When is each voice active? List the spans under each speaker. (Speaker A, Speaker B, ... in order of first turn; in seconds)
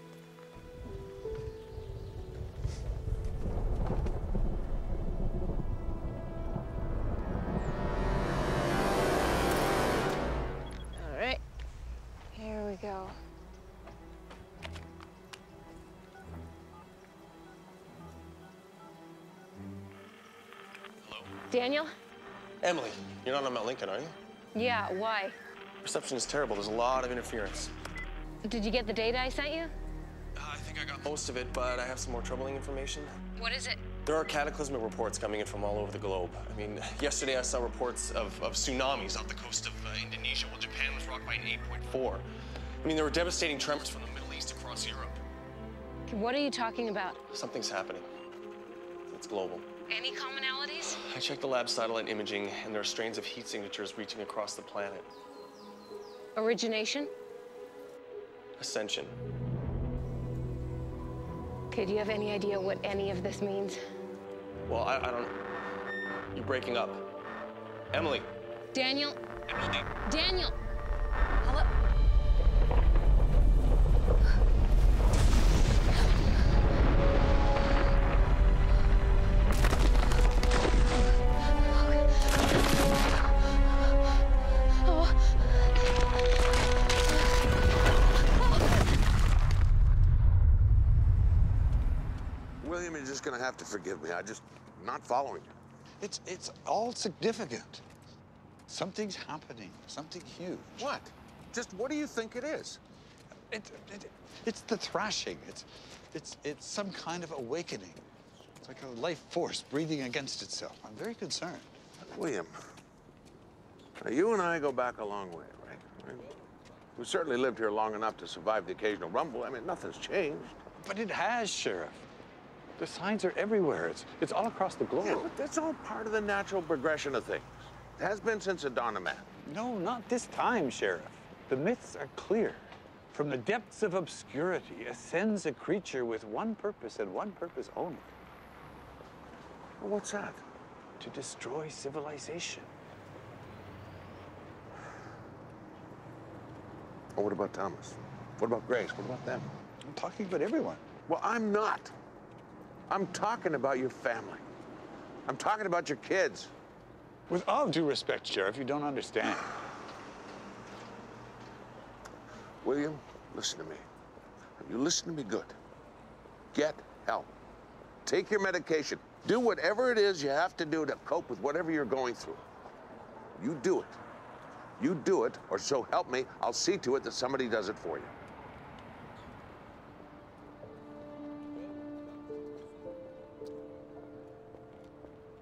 Speaker A: 11.0-11.4, 12.3-13.2, 21.5-21.9, 24.6-25.4, 28.5-29.7, 33.4-33.8, 46.1-47.2, 49.9-51.0, 56.4-57.1, 61.7-63.8, 68.7-69.2, 70.1-70.5, 84.9-85.1
Speaker B: 21.0-21.3, 22.6-24.1, 25.8-27.7, 30.4-33.1, 34.0-42.2, 42.8-45.1, 47.3-48.1, 49.1-49.7, 51.0-55.1, 58.6-59.1, 64.7-65.3, 66.3-67.0, 67.9-68.3
Speaker C: 92.6-95.6, 100.8-102.8, 112.1-112.5, 114.0-116.3, 117.0-120.5, 125.0-129.3, 139.8-140.4, 147.2-149.5, 151.1-151.9, 152.9-154.4, 155.3-156.5, 162.6-163.8, 164.6-165.6, 166.5-167.3, 168.1-172.4, 173.3-174.0, 174.8-178.1
Speaker D: 96.0-97.8, 98.7-100.9, 103.5-108.0, 108.6-111.7, 120.8-122.0, 122.8-125.3, 129.4-138.1, 141.0-142.7, 149.8-150.8, 157.3-159.5